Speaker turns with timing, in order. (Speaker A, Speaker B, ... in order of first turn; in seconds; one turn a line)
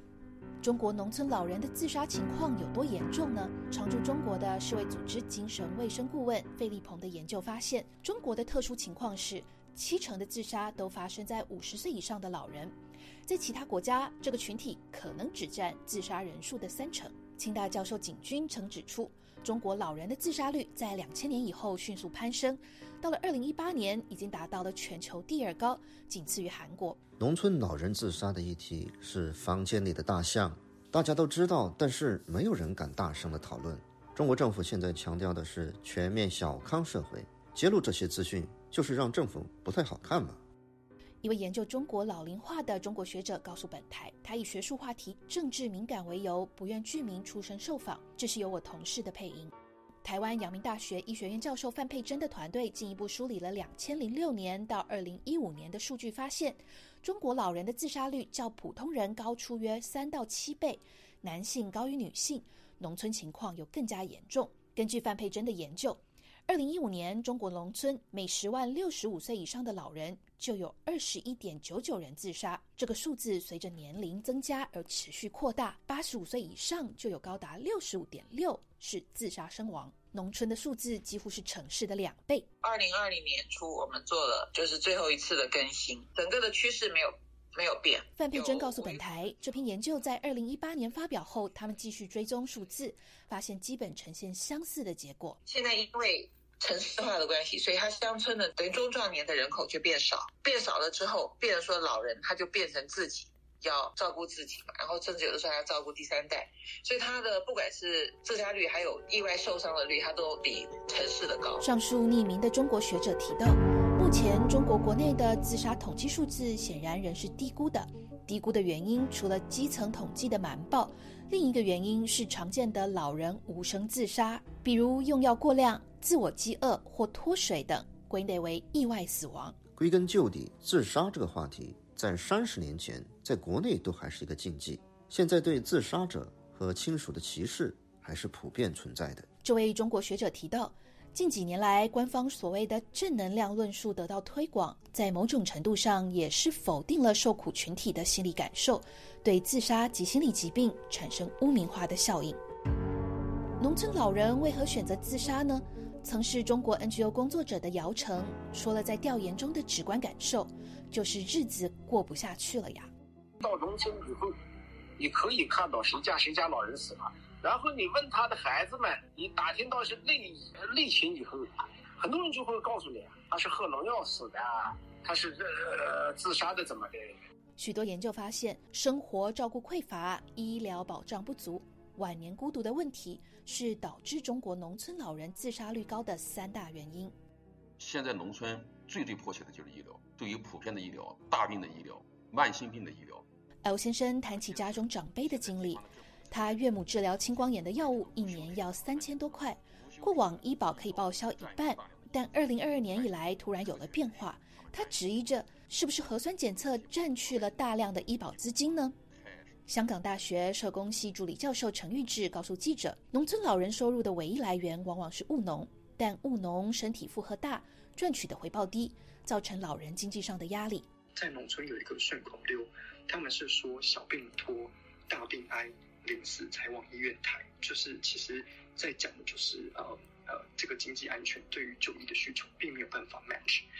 Speaker A: 0.6-27.0
Speaker B: 27.2-40.4
Speaker A: 41.2-49.5
Speaker A: 50.0-82.5
Speaker C: 82.6-89.0
Speaker A: 88.2-95.4
Speaker C: 95.5-111.6
Speaker A: 111.6-129.6
Speaker B: 129.8-139.3
Speaker A: 139.4-152.4
Speaker A: 153.6-162.9
Speaker D: 163.4-164.3
Speaker D: 165.0-177.2
Speaker A: 177.6-187.1
Speaker E: 187.8-193.2
Speaker A: 193.6-208.9
Speaker E: 194.3-205.1
Speaker E: 206.4-207.8
Speaker E: 209.1-209.6
Speaker A: 209.7-220.9
Speaker F: 221.1-233.6